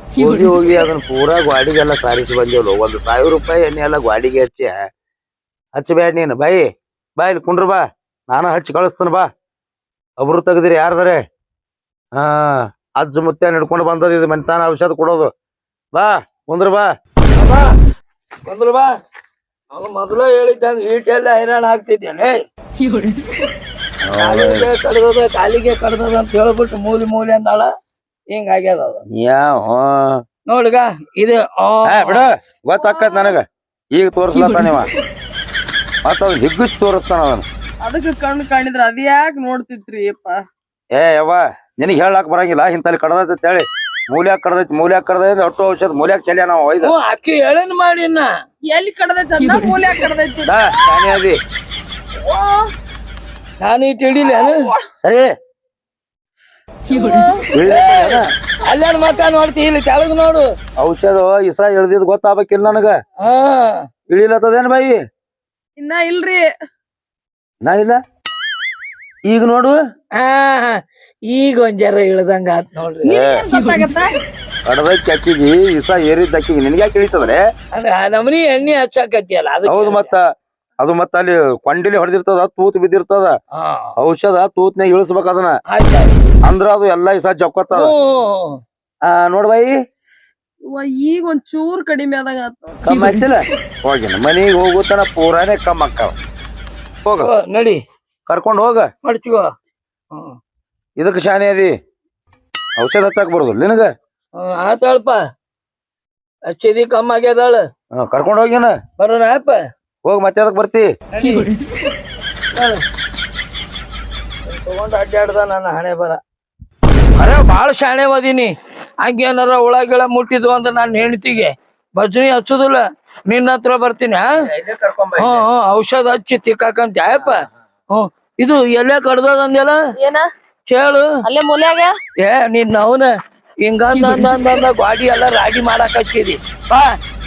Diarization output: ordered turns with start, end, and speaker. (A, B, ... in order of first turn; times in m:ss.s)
0:00.2-0:04.8 A
0:05.8-0:09.3 A
0:10.2-0:11.2 A
0:12.2-0:15.3 A
0:15.9-0:16.9 A
0:17.4-0:17.7 B
0:18.5-0:18.9 B
0:19.7-0:22.4 B
0:24.0-0:24.7 A
0:24.2-0:27.7 B
0:28.3-0:29.0 B
0:29.2-0:30.2 A
0:30.5-0:32.2 B
0:31.8-0:34.9 A
0:32.8-0:33.4 C
0:36.0-0:37.4 A
0:37.8-0:40.4 C
0:40.9-0:47.0 A
0:46.8-0:48.3 B
0:48.7-0:51.1 C
0:50.5-0:51.4 A
0:52.2-0:52.7 C
0:53.6-0:54.6 B
0:55.0-0:55.3 A
0:56.9-0:57.5 C
0:57.5-0:58.3 A
0:57.6-1:00.5 B
1:00.8-1:03.0 A
1:03.2-1:03.9 B
1:04.1-1:05.0 A
1:05.8-1:06.5 C
1:07.6-1:08.0 A
1:09.3-1:09.8 A
1:10.2-1:13.2 B
1:13.0-1:14.1 C
1:13.1-1:13.5 A
1:14.7-1:17.4 A
1:17.7-1:20.1 B
1:19.7-1:20.3 A
1:20.8-1:23.3 A
1:23.5-1:23.9 B
1:24.0-1:25.6 A
1:25.7-1:26.1 B
1:26.4-1:27.9 A
1:27.7-1:28.6 B
1:29.0-1:29.8 A
1:30.7-1:32.8 C
1:32.8-1:36.2 A
1:37.0-1:37.3 A
1:37.2-1:37.8 B
1:38.3-1:38.9 A
1:39.0-1:39.5 B
1:40.1-1:40.4 B
1:41.0-1:41.7 A
1:42.8-1:43.9 A
1:44.4-1:45.2 B
1:46.5-1:47.7 B
1:47.9-1:48.8 A
1:49.0-1:49.6 B
1:50.0-1:50.9 A
1:51.1-1:51.5 B
1:52.5-1:52.8 B
1:54.4-1:56.2 B
1:57.2-2:04.3 B
2:04.3-2:05.5 A
2:05.2-2:09.8 B
2:10.0-2:10.3 C
2:10.7-2:11.2 B
2:11.3-2:12.0 C
2:12.2-2:17.0 B